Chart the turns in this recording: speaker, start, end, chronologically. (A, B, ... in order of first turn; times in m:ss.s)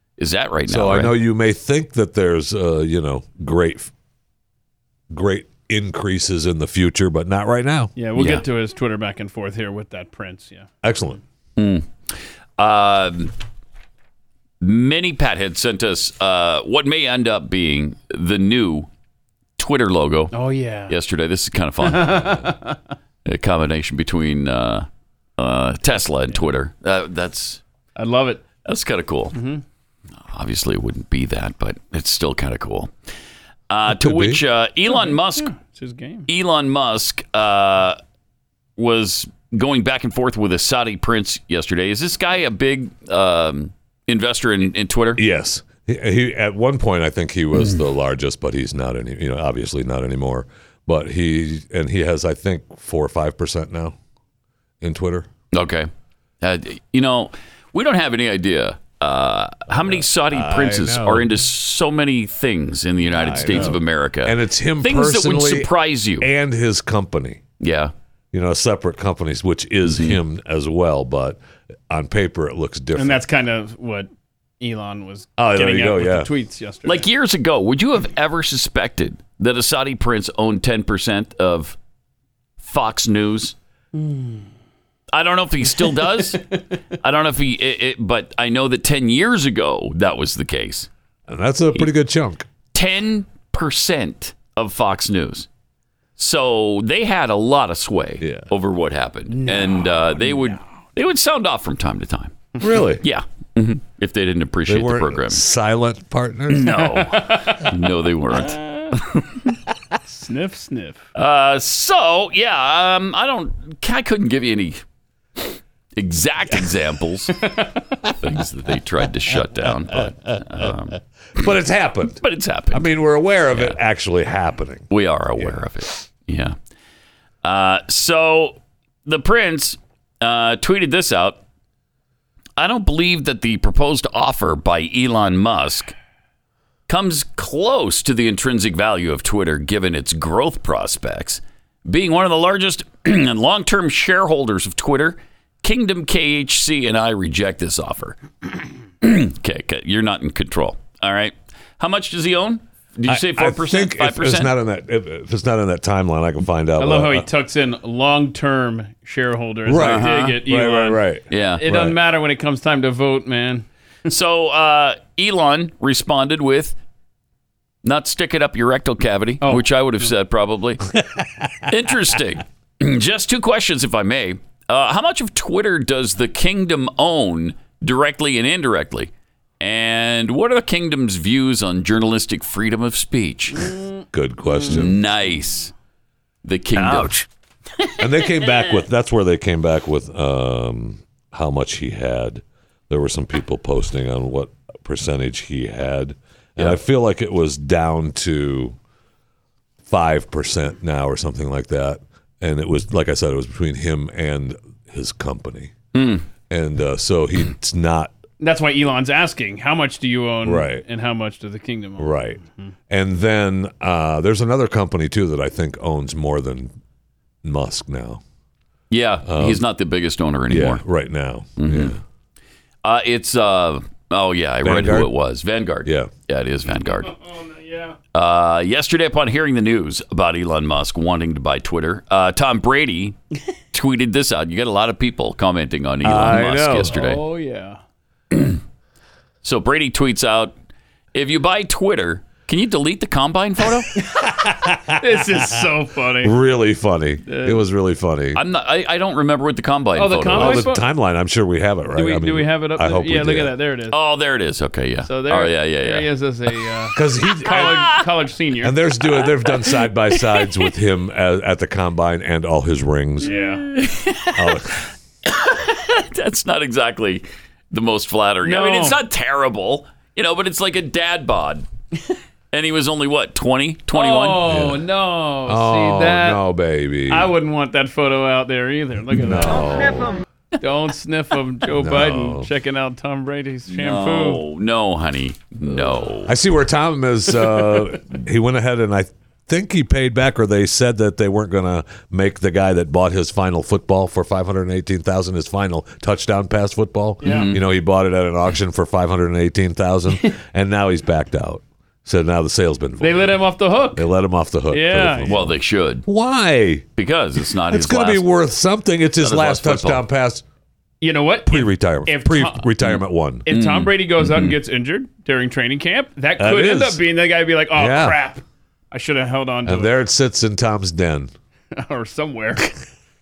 0:00.2-0:01.1 A
0:00.7-0:03.9 B
0:05.1-0:07.9 B
0:08.0-0:10.7 C
0:08.1-0:08.4 A
0:10.8-0:11.2 B
0:11.6-0:13.3 A
0:14.6-0:18.9 A
0:19.6-0:20.3 A
0:20.3-0:20.9 C
0:20.9-0:22.5 A
0:21.8-0:22.8 C
0:23.2-0:24.8 A
0:25.4-0:27.6 A
0:28.0-0:28.4 C
0:28.6-0:29.4 A
0:29.3-0:29.6 C
0:30.3-0:32.9 A
0:33.7-0:35.5 A
0:33.9-0:34.4 B
0:34.9-0:36.3 C
0:36.3-0:38.0 A
0:38.8-0:45.2 A
0:45.2-0:54.0 B
0:54.8-0:55.3 B
0:55.5-0:55.9 A
0:56.4-1:06.3 A
0:59.9-1:01.3 B
1:03.2-1:07.4 B
1:07.6-1:07.9 A
1:08.3-1:13.2 B
1:09.9-1:10.2 A
1:13.0-1:17.0 C
1:15.4-1:16.3 B
1:16.8-1:21.8 A
1:22.6-1:23.5 A
1:23.9-1:24.5 C
1:25.1-1:26.4 A
1:25.8-1:26.6 C
1:27.0-1:30.9 A
1:31.3-1:32.4 B
1:32.7-1:35.5 A
1:36.2-1:42.4 A
1:38.2-1:38.5 B
1:39.3-1:40.6 C
1:42.6-1:43.0 B
1:43.0-1:45.4 A
1:44.7-1:46.8 B
1:46.5-1:49.3 A
1:46.9-1:47.7 C
1:48.3-1:48.9 C
1:50.1-1:51.0 C
1:51.1-1:54.8 A
1:55.4-1:57.5 A
1:58.1-2:01.5 A
1:59.9-2:00.7 B
2:01.4-2:04.9 B
2:02.2-2:02.9 A
2:03.5-2:03.8 A
2:04.9-2:06.6 A
2:07.4-2:11.4 A
2:12.6-2:15.9 A
2:16.9-2:28.2 A
2:29.0-2:34.5 A
2:33.1-2:37.3 B
2:36.8-2:41.0 C
2:39.6-2:42.0 B
2:39.8-2:40.4 A
2:41.3-2:41.6 A
2:41.6-2:43.6 C
2:44.1-2:46.8 A
2:47.8-2:50.8 A
2:49.4-2:50.1 C
2:51.7-3:03.7 A
3:03.6-3:04.8 C
3:04.1-3:05.0 B
3:04.7-3:05.7 A
3:06.4-3:07.2 A
3:06.7-3:07.1 B
3:08.0-3:18.8 B
3:19.8-3:25.8 B
3:25.9-3:26.2 A
3:26.5-3:28.1 B
3:28.4-3:32.7 C
3:30.4-3:30.8 B
3:32.0-3:36.7 B
3:37.4-3:38.2 B
3:38.9-3:40.8 A
3:39.2-3:39.6 B
3:40.5-3:42.0 B
3:41.6-3:41.9 A
3:42.8-3:47.1 A
3:44.6-3:45.1 B
3:45.8-3:46.1 B
3:47.0-3:48.0 C
3:48.1-3:53.2 A
3:53.7-3:57.2 A
3:56.0-3:57.0 B
3:56.9-3:57.8 C
3:58.3-3:58.6 A
3:59.4-4:00.5 A
4:01.1-4:03.9 A
4:04.0-4:04.3 C
4:04.2-4:05.6 B
4:05.0-4:06.4 C
4:06.2-4:08.4 B
4:07.2-4:07.6 C
4:08.3-4:10.7 A
4:09.9-4:10.8 C
4:10.3-4:13.5 B
4:11.9-4:14.0 C
4:13.9-4:16.1 A
4:15.0-4:18.8 C
4:16.9-4:17.9 B
4:17.4-4:18.0 A
4:18.6-4:23.3 B
4:23.2-4:23.7 C
4:23.3-4:24.6 A
4:24.3-4:24.8 B
4:25.3-4:31.6 A
4:28.4-4:29.0 C
4:32.5-4:34.5 A
4:33.9-4:36.4 C
4:34.4-4:34.9 B
4:35.4-4:37.3 B
4:37.1-4:40.0 C
4:39.1-4:40.1 B
4:40.6-4:44.4 C
4:41.7-4:42.5 B
4:43.7-4:46.3 A
4:46.2-5:03.4 B
4:57.2-4:57.5 C
4:57.2-4:57.6 A
5:03.0-5:04.1 C
5:03.9-5:06.9 B
5:04.7-5:05.4 C
5:05.2-5:06.0 A
5:07.0-5:08.2 A
5:07.7-5:10.4 B
5:09.2-5:10.0 A
5:11.0-5:12.7 C
5:11.4-5:13.5 B
5:13.5-5:19.9 C
5:13.5-5:14.6 A
5:16.4-5:17.0 B
5:17.7-5:18.2 B
5:19.6-5:21.3 B
5:21.7-5:22.7 C